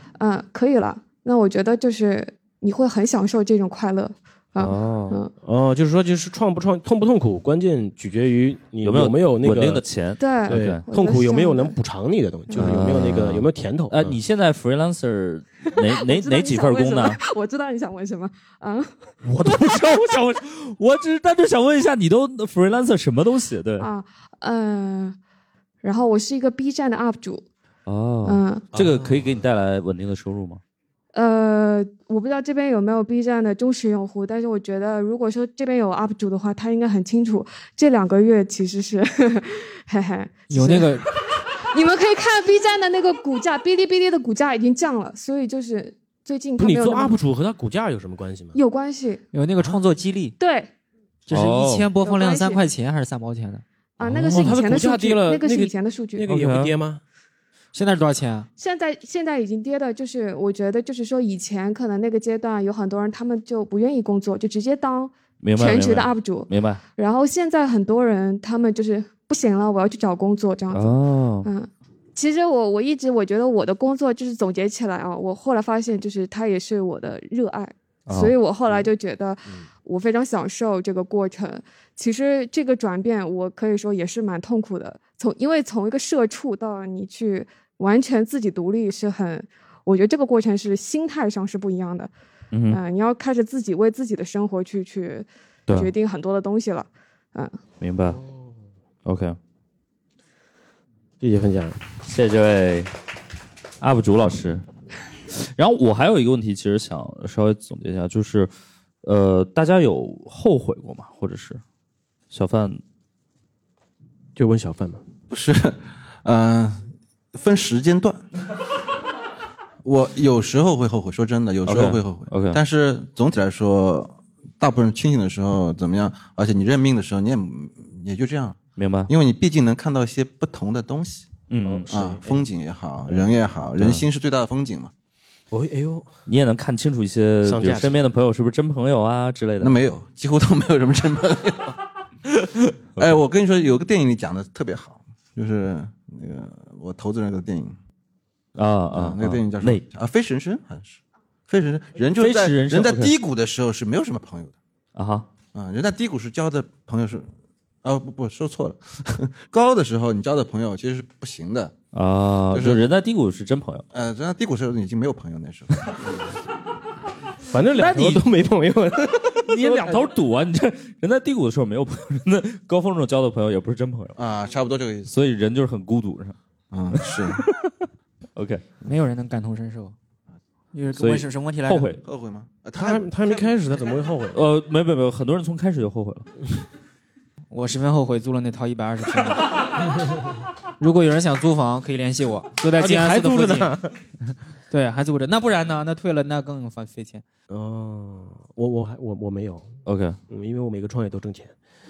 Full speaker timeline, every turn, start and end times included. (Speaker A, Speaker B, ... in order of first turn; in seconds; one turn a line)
Speaker A: 0.2-5.3
Speaker B: 4.6-5.2
Speaker C: 5.4-9.8
Speaker B: 8.8-10.8
Speaker A: 10.2-11.8
Speaker C: 10.5-14.2
Speaker A: 12.5-12.9
Speaker B: 12.5-17.2
Speaker A: 15.7-19.1
Speaker B: 19.3-23.9
Speaker A: 23.8-25.2
Speaker A: 25.8-27.4
Speaker B: 27.9-30.6
Speaker A: 28.2-28.7
Speaker C: 28.7-29.3
Speaker A: 31.1-41.1
Speaker D: 40.5-41.0
Speaker A: 41.7-47.2
Speaker C: 46.6-48.6
Speaker A: 48.5-49.2
Speaker D: 49.3-50.3
Speaker A: 50.4-50.7
Speaker D: 51.3-53.6
Speaker B: 51.3-51.9
Speaker A: 52.0-52.6
Speaker A: 54.0-56.3
Speaker C: 54.0-57.0
Speaker B: 56.3-56.8
Speaker D: 57.7-58.5
Speaker A: 58.6-92.1
Speaker B: 65.4-66.8
Speaker B: 70.7-71.5
Speaker B: 78.1-78.3
Speaker B: 92.5-92.8
Speaker A: 92.7-97.6
Speaker B: 95.7-95.9
Speaker B: 97.8-98.2
Speaker C: 98.1-98.5
Speaker B: 99.0-99.4
Speaker C: 101.2-101.8
Speaker B: 102.1-102.9
Speaker B: 103.8-104.6
Speaker B: 105.5-108.5
Speaker B: 109.0-111.6
Speaker B: 112.3-112.8
Speaker C: 114.3-115.0
Speaker E: 115.3-118.3
Speaker E: 119.8-131.3
Speaker B: 121.7-122.6
Speaker B: 128.8-129.1
Speaker B: 131.5-131.9
Speaker C: 131.6-132.4
Speaker E: 131.9-134.9
Speaker C: 135.5-136.1
Speaker B: 136.3-139.8
Speaker C: 137.4-138.0
Speaker E: 139.6-141.8
Speaker E: 143.0-147.8
Speaker B: 148.6-149.8
Speaker E: 148.9-154.6
Speaker B: 152.2-153.1
Speaker B: 154.9-155.3
Speaker E: 155.5-157.3
Speaker E: 157.8-161.7
Speaker B: 161.9-163.8
Speaker E: 162.5-162.8
Speaker E: 163.9-166.2
Speaker C: 167.5-169.9
Speaker B: 167.7-168.3
Speaker B: 169.5-174.2
Speaker E: 174.2-175.1
Speaker B: 175.1-176.3
Speaker E: 176.7-177.4
Speaker B: 176.9-177.7
Speaker B: 178.3-178.7
Speaker D: 178.8-179.9
Speaker D: 180.7-181.9
Speaker B: 181.0-182.0
Speaker E: 182.0-183.6
Speaker C: 182.8-184.4
Speaker B: 184.3-186.3
Speaker D: 187.5-189.5
Speaker D: 190.8-193.7
Speaker C: 192.8-193.9
Speaker D: 194.7-197.2
Speaker C: 197.5-199.7
Speaker B: 199.8-200.2
Speaker C: 200.3-201.5